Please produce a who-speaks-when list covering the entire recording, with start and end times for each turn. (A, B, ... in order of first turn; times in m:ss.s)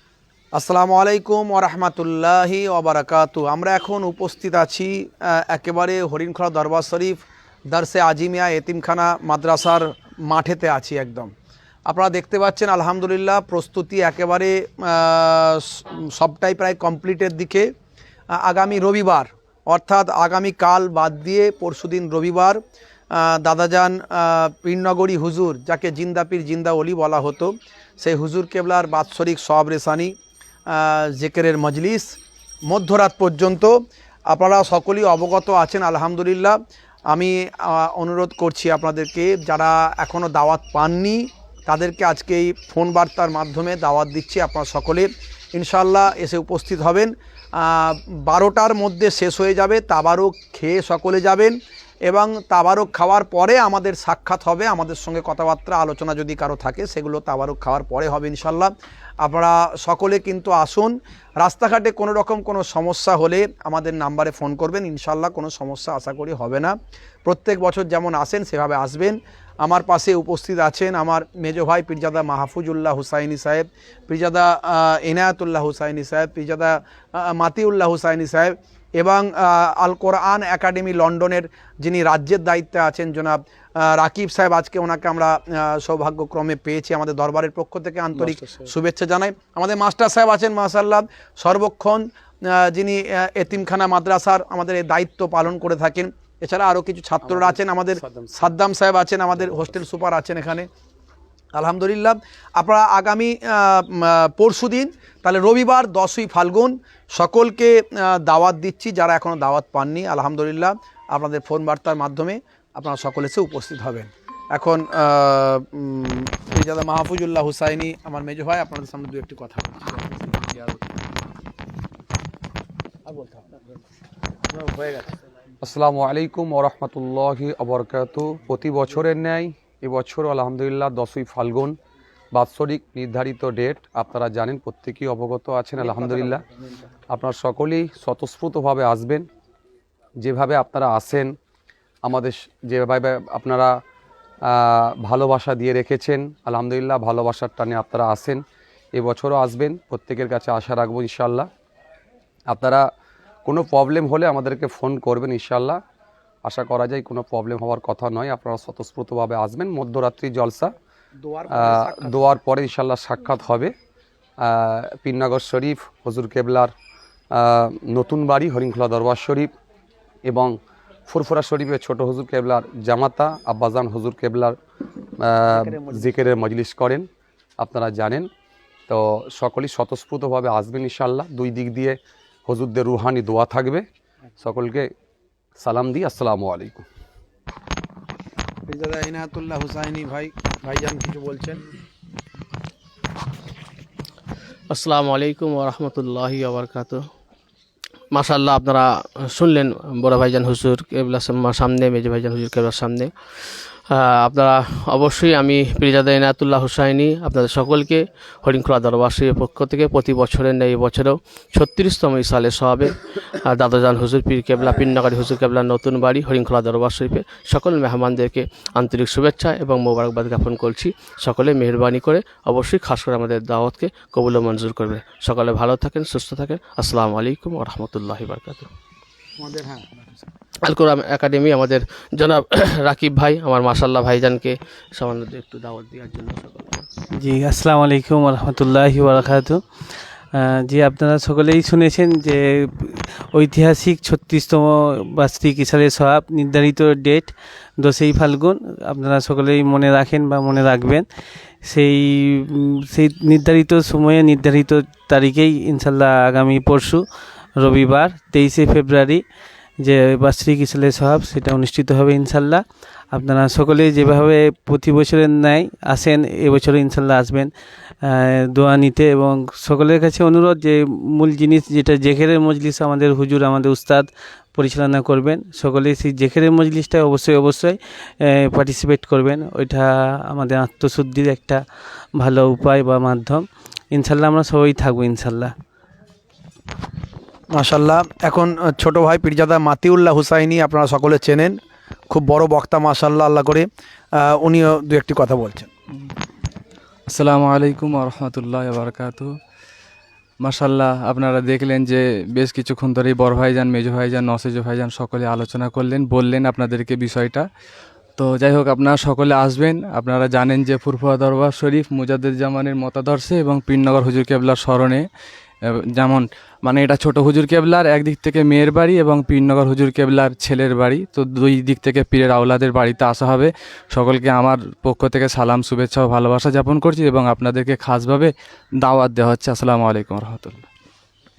0:00.5-0:11.3 A
0:11.9-0:17.7 A
0:18.3-0:22.6 A
0:23.1-0:30.1 A
0:30.7-0:32.1 A
0:32.7-0:33.7 A
0:34.3-0:36.6 A
0:37.1-1:40.7 A
1:28.2-1:28.6 B
1:37.2-1:38.5 B
1:41.6-2:00.8 A
2:03.1-2:03.6 A
2:04.5-2:05.1 A
2:05.6-2:11.8 B
2:12.3-2:16.4 B
2:15.8-2:16.3 A
2:17.1-2:19.2 B
2:20.2-2:21.3 B
2:22.0-2:23.7 B
2:24.5-2:28.4 B
2:28.9-2:31.5 B
2:32.5-2:32.8 B
2:33.4-2:35.8 B
2:36.4-2:40.7 B
2:41.2-2:42.4 A
2:41.5-2:43.7 B
2:44.4-2:46.7 B
2:47.3-2:49.5 B
2:50.2-2:50.6 B
2:51.1-2:54.6 B
2:55.2-2:57.1 B
2:55.5-2:56.1 A
2:57.6-2:58.3 B
2:58.9-3:03.8 B
3:04.4-3:04.9 B
3:05.6-3:06.8 B
3:08.6-3:11.6 A
3:14.7-3:17.0 C
3:18.1-3:48.7 C
3:49.4-3:50.3 A
3:50.6-3:56.9 C
3:57.2-3:59.6 D
4:00.3-4:11.0 D
4:11.6-4:17.0 D
4:17.6-4:19.2 D
4:19.8-4:27.5 D
4:28.0-4:41.6 D
4:42.2-4:45.5 D
4:47.5-4:51.5 A
4:52.1-4:55.7 A
4:57.1-4:59.3 E
5:00.4-5:07.5 E
5:08.2-5:15.0 E
5:15.6-5:30.6 E